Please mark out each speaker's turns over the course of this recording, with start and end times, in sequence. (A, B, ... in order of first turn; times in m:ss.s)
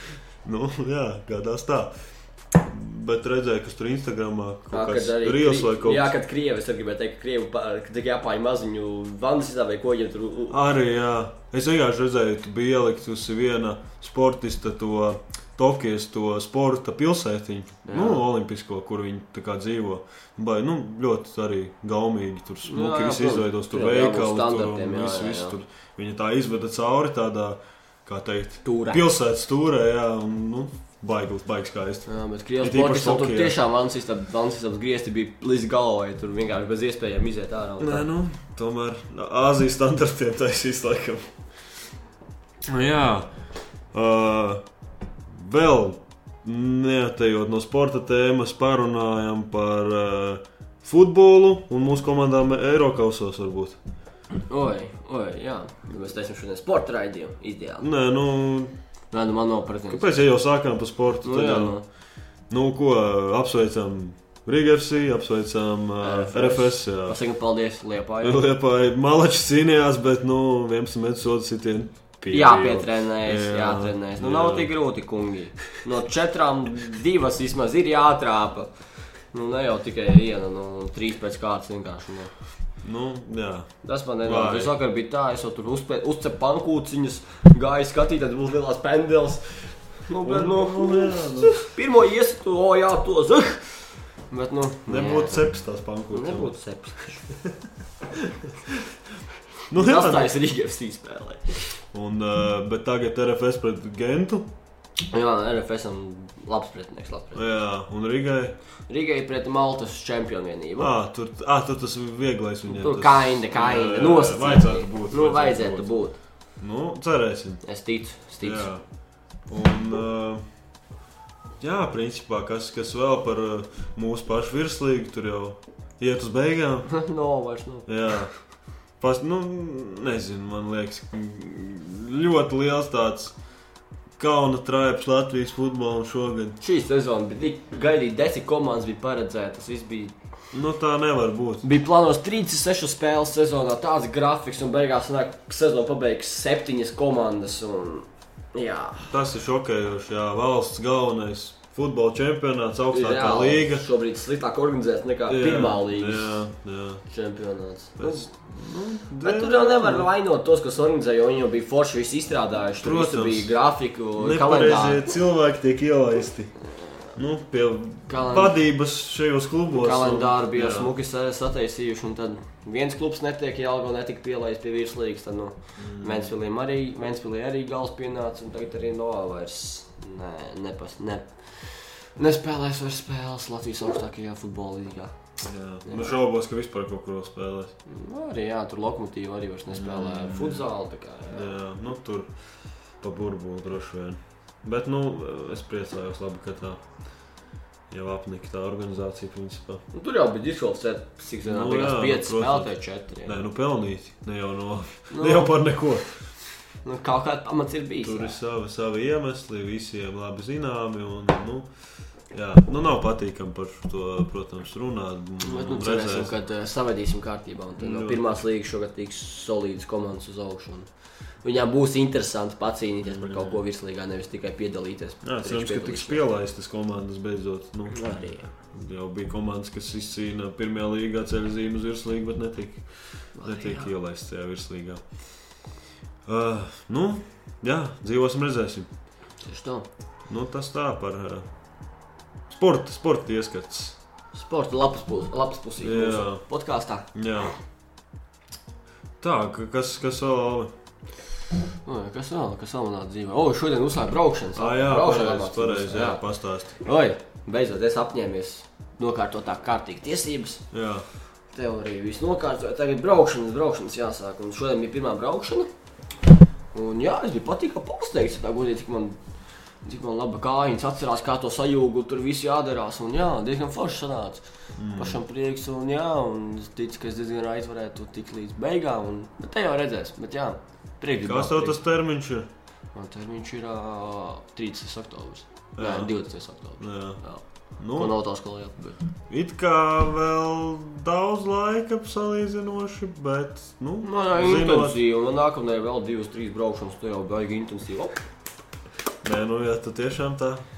0:00.4-0:01.9 A
0:02.5-0:06.1 A
0:04.7-0:10.6 B
0:10.5-0:32.1 A
0:17.8-0:18.2 B
0:22.6-0:25.6 B
0:28.6-0:29.0 B
0:32.0-0:38.1 B
0:32.6-0:33.6 A
0:37.8-0:41.4 A
0:42.7-0:43.3 A
0:43.9-0:44.6 A
0:45.3-0:53.8 A
0:54.3-0:57.9 B
0:57.8-0:58.7 A
0:59.1-1:00.1 B
0:59.9-1:01.8 A
1:01.2-1:01.8 B
1:02.5-1:07.2 A
1:06.0-1:08.4 B
1:08.2-1:14.7 A
1:12.3-1:18.7 B
1:19.3-1:22.3 B
1:22.8-1:23.7 A
1:23.8-1:35.4 B
1:24.2-1:24.7 A
1:30.2-1:31.6 A
1:34.9-1:36.5 A
1:36.1-1:37.2 B
1:39.7-1:40.3 A
1:39.7-1:41.8 B
1:41.9-1:44.5 A
1:45.1-1:47.5 B
1:47.3-1:48.6 A
1:48.9-1:50.9 B
1:50.8-1:55.9 A
1:52.7-1:56.2 B
1:56.6-1:57.6 A
1:57.6-1:58.7 B
1:58.4-1:58.8 A
1:59.5-2:00.4 A
2:01.6-2:06.9 A
2:06.9-2:07.9 B
2:07.9-2:08.3 A
2:09.0-2:13.3 A
2:14.2-2:16.6 A
2:16.6-2:20.1 B
2:20.5-2:21.6 A
2:21.6-2:29.2 B
2:29.1-2:33.8 A
2:32.9-2:36.4 B
2:35.3-2:37.0 A
2:37.1-2:38.3 B
2:38.0-2:40.1 A
2:39.2-2:45.1 B
2:42.8-2:43.6 A
2:44.2-2:46.5 A
2:47.1-2:50.9 A
2:48.1-2:48.6 B
2:49.7-3:05.1 B
2:55.8-2:56.3 A
3:05.4-3:07.7 A
3:05.8-3:06.1 B
3:07.8-3:11.6 B
3:09.7-3:10.7 A
3:11.3-3:12.3 A
3:13.0-3:16.8 A
3:17.9-3:19.8 A
3:19.9-3:23.4 B
3:21.4-3:26.2 A
3:25.1-3:25.6 B
3:26.8-3:28.4 B
3:28.0-3:31.7 A
3:32.3-3:36.3 A
3:35.4-3:40.9 B
3:37.8-3:38.3 A
3:41.4-3:46.2 B
3:43.0-3:43.6 A
3:45.2-3:55.1 A
3:47.9-3:48.5 B
3:53.4-3:53.9 B
3:56.2-3:58.9 A
3:59.4-3:59.9 B
4:00.3-4:01.5 A
4:02.5-4:04.0 A
4:04.3-4:07.1 B
4:05.8-4:06.4 A
4:07.1-4:07.5 A
4:09.2-4:10.7 A
4:11.8-4:16.2 B
4:14.5-4:16.7 A
4:16.8-4:20.6 B
4:20.7-4:21.0 A
4:21.5-4:25.7 B
4:26.7-4:29.2 B
4:29.8-4:41.8 B
4:34.8-4:35.2 A
4:41.2-4:42.5 A
4:42.9-4:47.4 B
4:45.8-4:46.1 A
4:46.8-4:47.2 A
4:47.8-4:48.1 A
4:47.9-4:49.0 B
4:49.3-4:55.0 A
4:54.0-4:58.2 B
4:59.2-5:00.6 A